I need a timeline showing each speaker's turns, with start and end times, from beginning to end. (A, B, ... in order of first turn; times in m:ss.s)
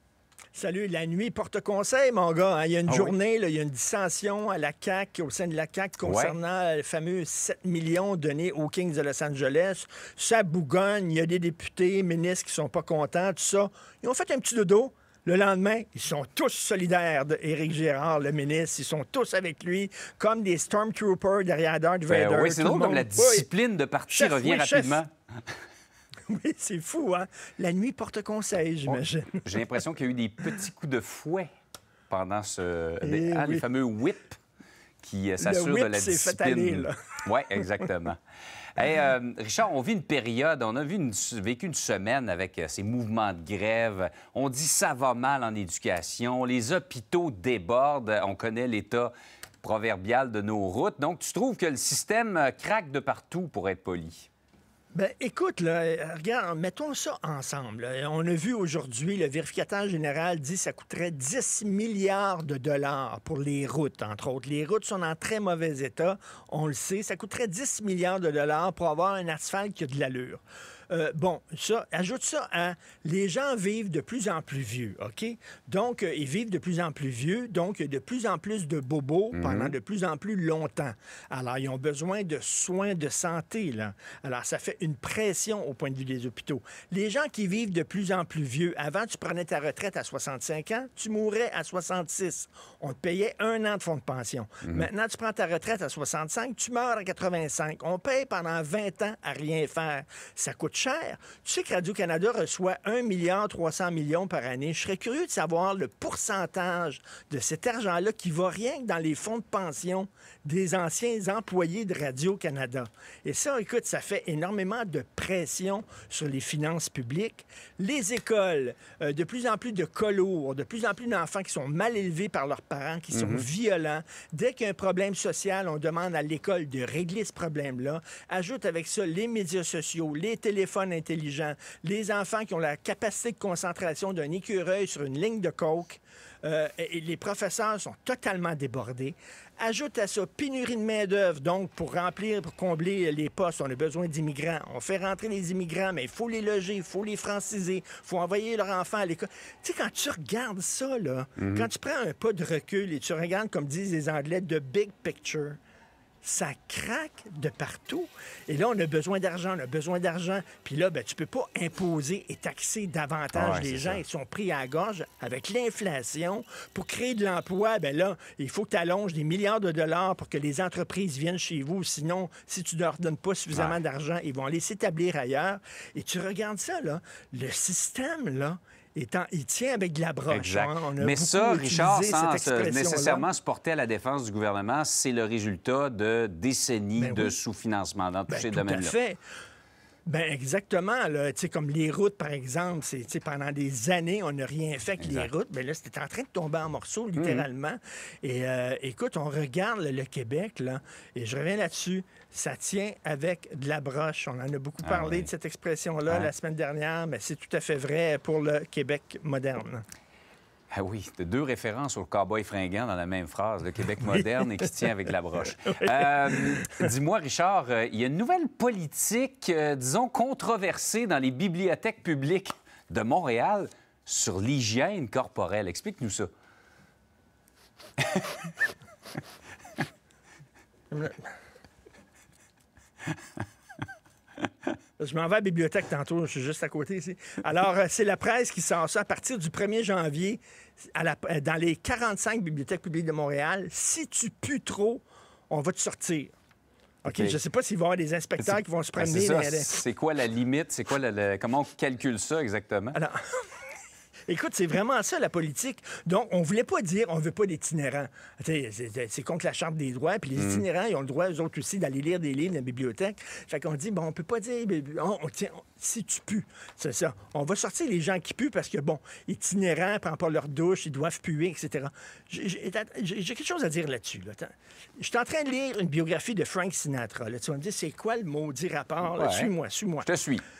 0:00.5-0:23.5 A
0:02.9-0:03.1 B
0:06.0-0:06.3 B
0:22.1-0:25.1 B
0:24.1-0:25.0 A
0:26.3-0:29.8 A
0:28.9-0:31.5 B
0:32.1-0:34.4 B
0:33.0-0:33.6 A
0:35.0-0:38.2 B
0:35.4-0:36.9 A
0:37.5-0:37.8 A
0:38.8-0:54.3 B
0:54.9-2:35.6 A
1:19.3-1:19.7 B
2:03.1-2:03.5 B
2:31.4-2:31.7 B
2:36.2-3:03.3 A
2:43.3-2:44.0 B
2:53.5-2:53.8 B
3:00.3-3:08.9 B
3:07.0-3:07.3 A
3:08.3-3:09.2 A
3:10.0-3:29.8 A
3:15.0-3:15.3 B
3:17.2-3:17.4 B
3:24.8-3:25.3 B
3:30.7-3:46.3 B
3:34.1-3:34.8 A
3:35.8-3:36.9 A
3:50.9-3:51.3 A
3:55.0-4:06.3 A
4:07.0-4:09.7 A
4:07.1-4:07.4 B
4:08.4-4:13.0 B
4:12.9-4:13.5 A
4:14.3-4:40.1 A
4:20.4-4:20.6 B
4:39.0-4:39.5 B
4:40.0-4:40.4 B